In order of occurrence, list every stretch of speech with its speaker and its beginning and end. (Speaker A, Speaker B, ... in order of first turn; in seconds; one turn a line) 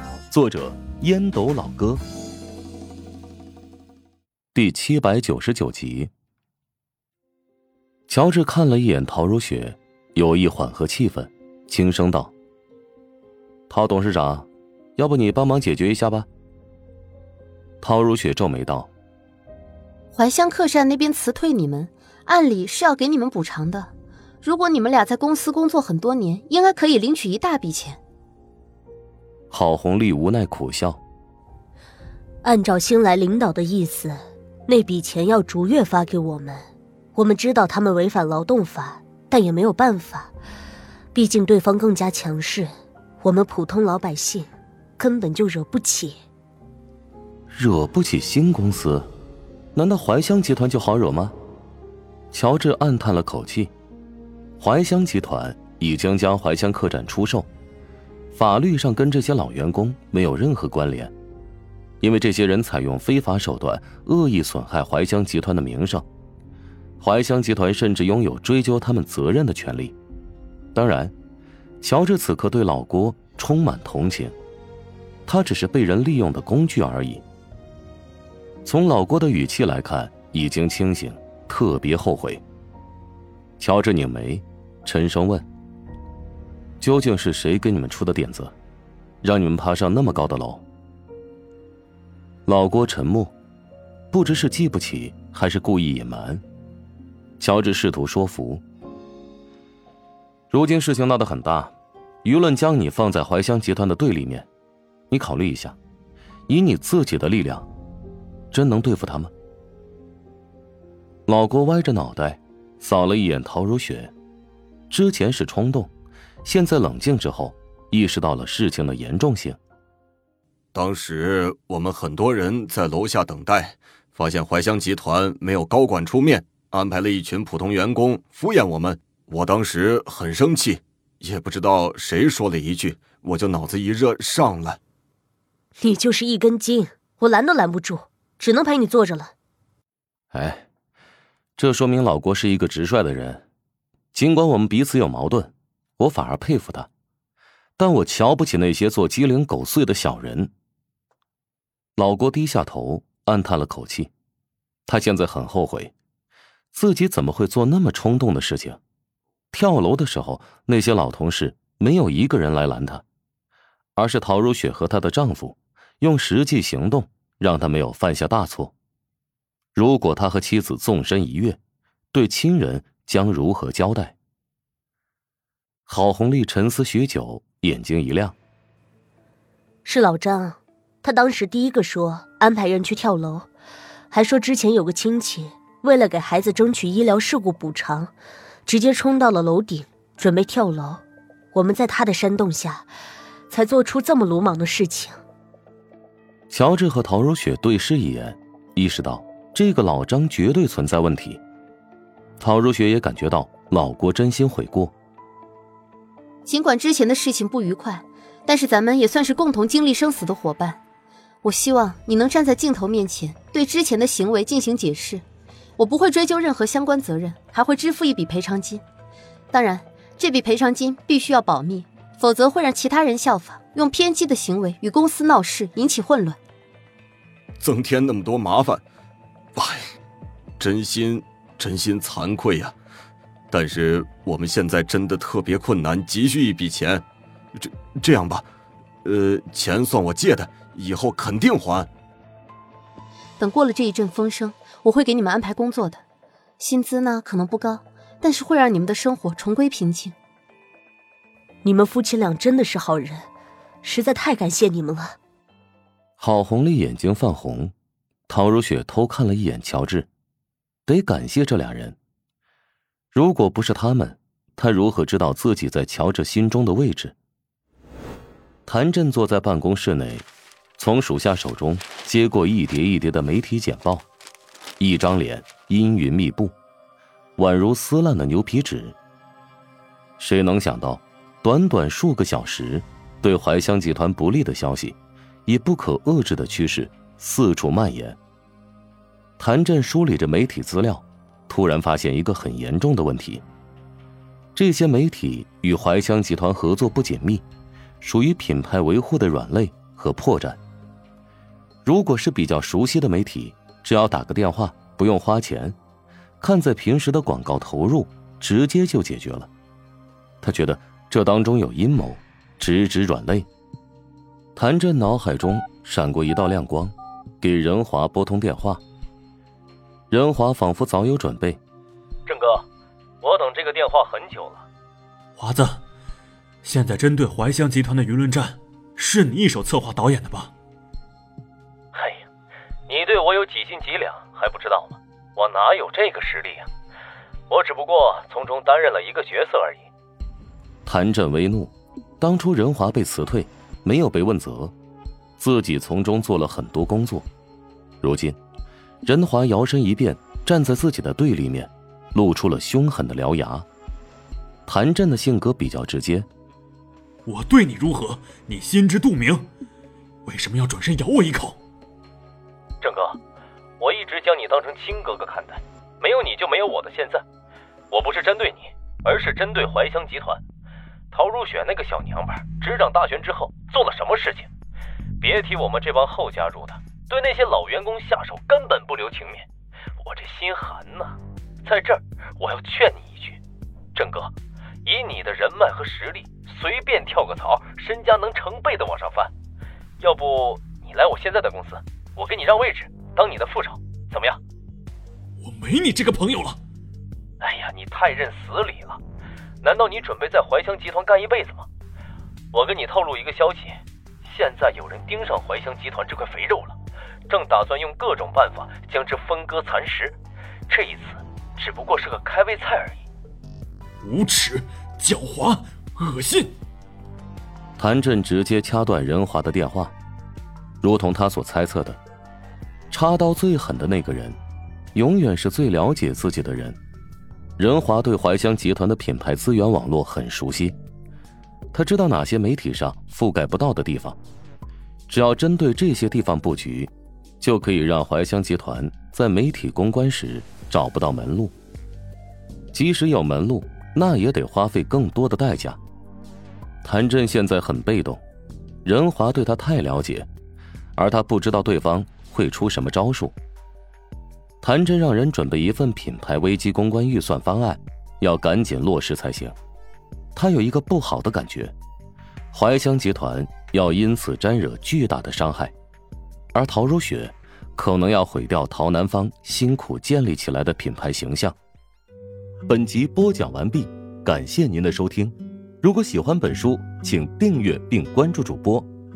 Speaker A: 0.3-2.0
Speaker A: 4.5-6.1
Speaker A: 8.1-12.3
Speaker A: 13.7-16.3
Speaker A: 17.8-18.9
Speaker B: 20.1-23.9
Speaker B: 24.4-28.0
Speaker A: 29.5-31.0
Speaker C: 32.4-36.6
Speaker C: 37.1-40.3
Speaker C: 41.1-42.7
Speaker C: 43.2-46.1
Speaker A: 47.5-49.1
Speaker A: 49.8-51.3
Speaker A: 52.3-53.7
Speaker A: 54.6-57.5
Speaker A: 58.3-61.1
Speaker A: 62.0-66.1
Speaker A: 67.0-69.9
Speaker A: 70.8-71.1
Speaker A: 71.8-74.3
Speaker A: 75.3-77.2
Speaker A: 78.7-82.4
Speaker A: 83.6-85.5
Speaker A: 86.8-88.5
Speaker A: 89.2-90.6
Speaker A: 92.5-93.3
Speaker A: 94.1-96.4
Speaker A: 97.4-98.6
Speaker A: 100.5-101.7
Speaker A: 102.2-104.5
Speaker A: 105.1-105.8
Speaker A: 106.5-107.7
Speaker A: 108.5-109.3
Speaker A: 111.3-114.1
Speaker A: 114.9-115.9
Speaker A: 116.4-119.6
Speaker D: 120.7-134.8
Speaker C: 135.8-139.3
Speaker A: 140.3-140.7
Speaker A: 141.6-143.4
Speaker A: 144.1-146.9
Speaker A: 147.8-150.5
Speaker A: 152.0-154.1
Speaker A: 154.9-155.9
Speaker A: 156.7-158.8
Speaker A: 159.5-163.0
Speaker A: 164.0-168.7
Speaker A: 169.8-171.6
Speaker A: 172.1-174.2
Speaker A: 175.9-178.4
Speaker C: 179.8-183.5
Speaker C: 184.1-188.1
Speaker C: 188.7-191.0
Speaker C: 191.5-192.9
Speaker C: 193.5-195.2
Speaker A: 196.5-201.4
Speaker A: 202.4-204.9
Speaker B: 206.5-210.8
Speaker B: 211.4-215.2
Speaker B: 215.8-218.8
Speaker B: 219.5-226.4
Speaker D: 227.6-228.8
Speaker D: 229.6-229.8
Speaker D: 230.6-232.8
Speaker D: 233.5-237.0
Speaker D: 237.6-238.5
Speaker D: 239.1-241.9
Speaker B: 243.4-246.0
Speaker B: 246.6-250.2
Speaker C: 251.6-253.2
Speaker C: 253.8-255.2
Speaker A: 256.2-257.7
Speaker A: 258.3-260.1
Speaker A: 260.9-262.0
Speaker A: 263.1-267.1
Speaker A: 268.7-270.3
Speaker A: 270.8-274.1
Speaker A: 274.8-276.5
Speaker A: 277.4-279.0
Speaker A: 280.2-288.2
Speaker A: 289.4-293.4
Speaker A: 294.6-297.4
Speaker A: 298.0-300.6
Speaker A: 301.9-305.8
Speaker A: 306.4-309.5
Speaker A: 310.4-313.5
Speaker A: 314.6-318.8
Speaker A: 320.1-321.6
Speaker E: 322.3-322.6
Speaker E: 323.2-324.6
Speaker F: 325.4-325.8
Speaker F: 326.6-330.5
Speaker E: 331.9-332.2
Speaker E: 332.9-336.7
Speaker E: 337.5-339.8
Speaker A: 340.9-344.7
Speaker A: 345.4-347.3
Speaker A: 348.0-348.4
Speaker A: 349.1-353.7
Speaker A: 354.7-356.3
Speaker F: 357.3-359.5
Speaker F: 360.3-361.6
Speaker E: 362.8-363.2
Speaker E: 363.8-367.2
Speaker E: 367.9-370.4
Speaker E: 371.1-374.5
Speaker E: 375.2-379.4
Speaker E: 380.0-383.4
Speaker E: 384.0-384.3
Speaker E: 384.9-389.3
Speaker E: 390.0-394.4
Speaker F: 395.4-396.6
Speaker E: 397.4-399.0
Speaker E: 399.6-401.6
Speaker E: 402.5-406.8
Speaker E: 407.3-410.1
Speaker E: 410.7-413.0
Speaker F: 414.0-416.5
Speaker A: 417.8-419.9
Speaker A: 420.8-422.0
Speaker A: 422.9-424.4
Speaker A: 424.9-426.8
Speaker A: 427.6-430.8
Speaker A: 431.7-434.2
Speaker A: 435.1-441.5
Speaker A: 442.7-445.8
Speaker A: 446.8-448.2
Speaker A: 448.8-450.3
Speaker A: 451.0-453.4
Speaker A: 454.6-459.6
Speaker A: 460.4-461.7
Speaker A: 462.5-465.7
Speaker A: 466.5-471.6
Speaker A: 472.7-478.9